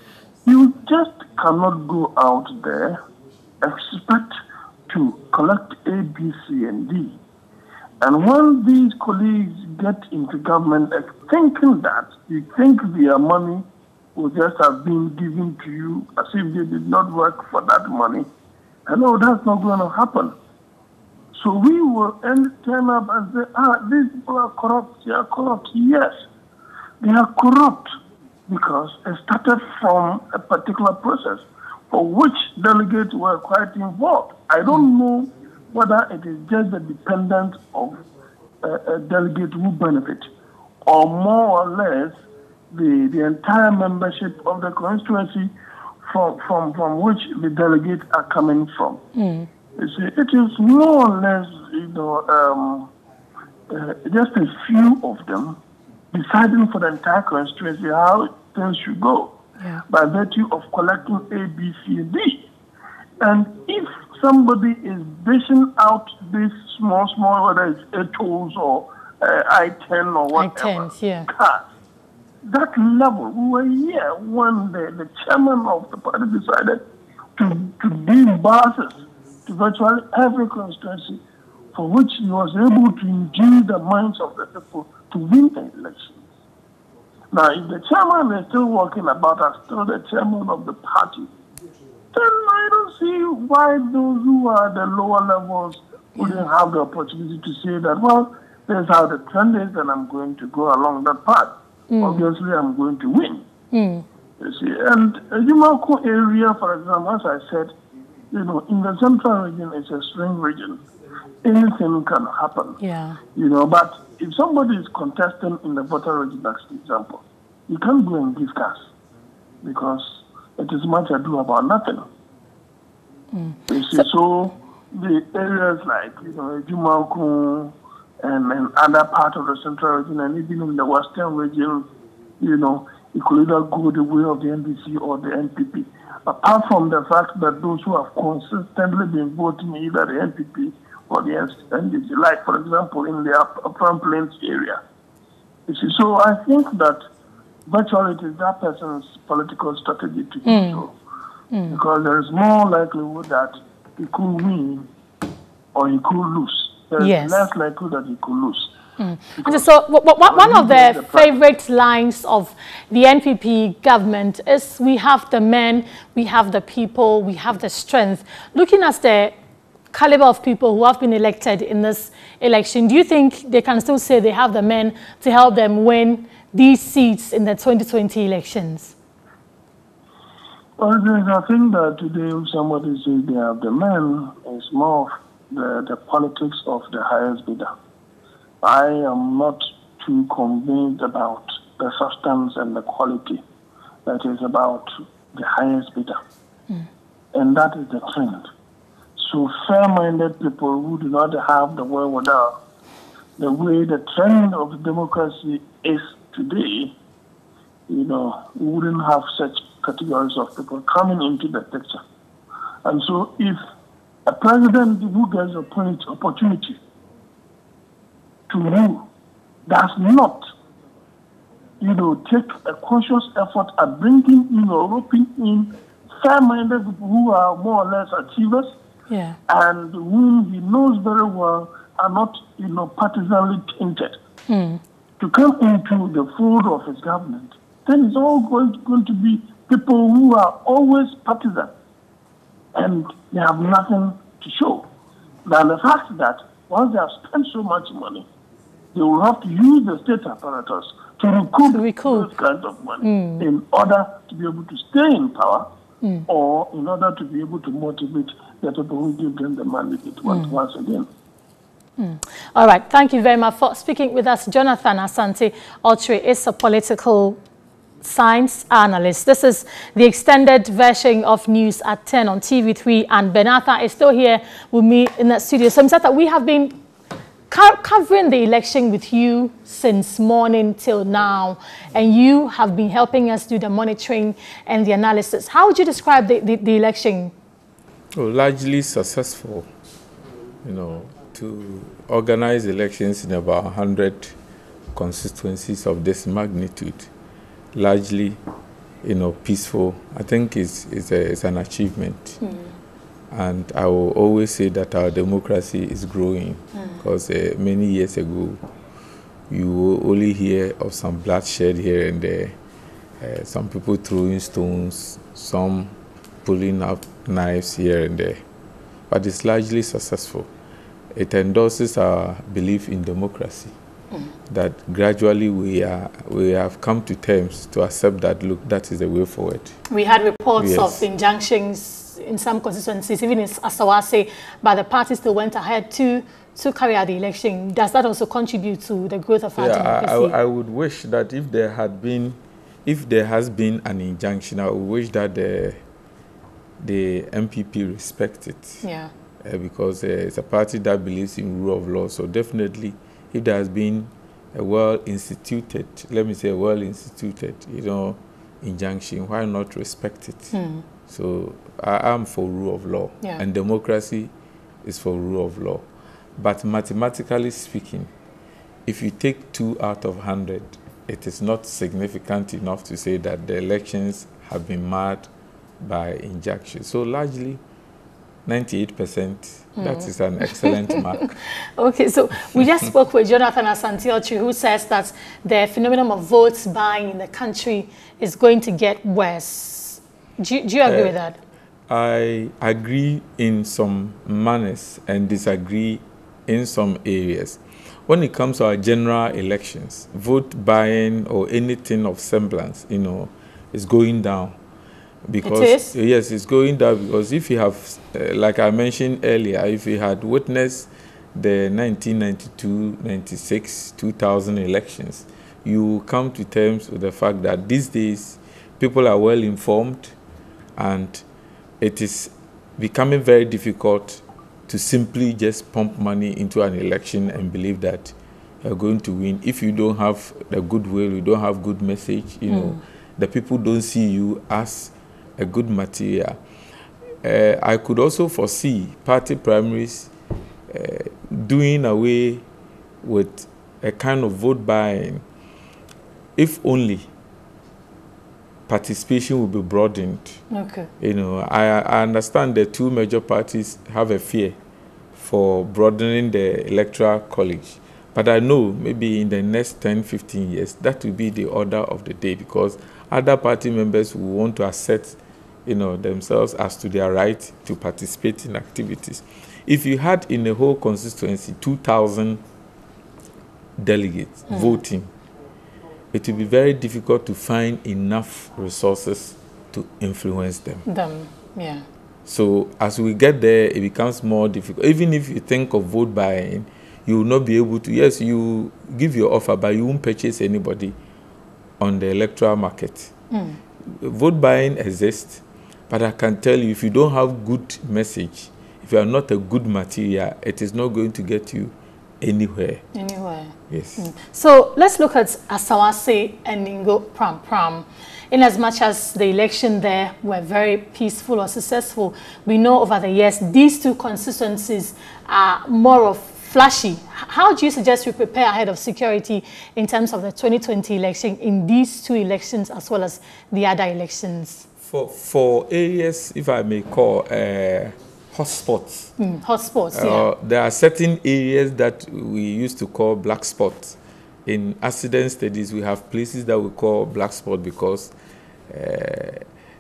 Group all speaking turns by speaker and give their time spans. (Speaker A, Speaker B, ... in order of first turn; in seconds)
Speaker A: 0.4-3.0, 3.6-4.3, 4.9-7.2, 8.0-18.3, 18.9-20.4, 21.3-26.2, 27.0-27.9, 28.5-38.0, 38.6-40.3, 40.9-42.2, 42.7-45.5, 46.1-49.0, 49.8-52.9, 53.7-55.6, 56.1-59.4, 59.9-62.5, 63.2-71.7, 72.4-76.8, 77.4-81.2, 81.7-86.2, 87.3-91.3, 92.1-103.5, 104.4-107.7, 108.3-110.8, 111.4-112.8, 113.3-118.9, 119.6-122.1, 123.7-131.9, 132.4-144.8, 145.7-147.1, 147.7-150.9, 151.7-154.9, 155.8-158.7, 159.4-159.7, 160.2-161.4, 180.8-187.7, 188.6-193.4, 194.1-196.2, 197.3-198.5, 199.2-202.6, 203.4-206.9, 207.9-212.0, 212.8-213.6, 214.3-216.8, 218.5-219.1, 219.7-220.5, 221.8-228.7, 229.5-234.2, 235.2-241.7, 242.8-244.9, 245.4-248.3, 248.9-255.7, 256.3-261.1
Speaker B: 49.1-49.5, 70.3-71.3, 101.9-102.3, 103.7-104.0, 112.8-113.2, 123.3-124.1, 150.4-150.9, 151.5-151.8, 157.0-157.5, 159.0-169.3, 169.9-178.9, 229.1-229.4, 234.5-234.8, 251.7-252.3, 253.0-253.5, 260.3-260.6, 262.0-267.4, 268.0-276.8, 277.5-287.3, 302.4-302.7, 306.7-307.0, 329.9-340.4, 348.8-349.1, 360.5-360.8, 379.8-391.4, 405.4-405.9, 432.5-432.8, 450.5-450.9, 474.5-474.8, 480.9-481.8, 493.3-493.6, 502.9-524.7, 529.2-530.3
Speaker C: 288.1-289.7, 290.6-294.4, 294.9-297.1, 297.8-298.4, 299.0-302.4, 303.3-308.6, 309.5-312.6, 313.2-318.4, 319.1-320.5, 321.1-323.7, 324.5-329.8, 330.6-331.1, 339.6-345.8, 346.8-348.8, 349.4-360.5, 361.1-364.3, 364.8-365.9, 366.4-368.1, 368.9-375.3, 375.8-377.6, 378.5-381.3, 390.9-391.2, 391.9-404.6, 405.3-420.1, 420.8-421.2, 421.8-436.4, 437.2-440.1, 440.7-442.4, 443.0-445.2, 446.4-447.1, 448.7-450.4, 451.0-454.6, 455.1-472.4, 473.8-475.1, 476.1-480.8, 482.3-491.0, 491.8-493.1, 493.9-502.8, 503.7-504.1, 524.8-529.1, 529.9-538.1, 538.7-539.4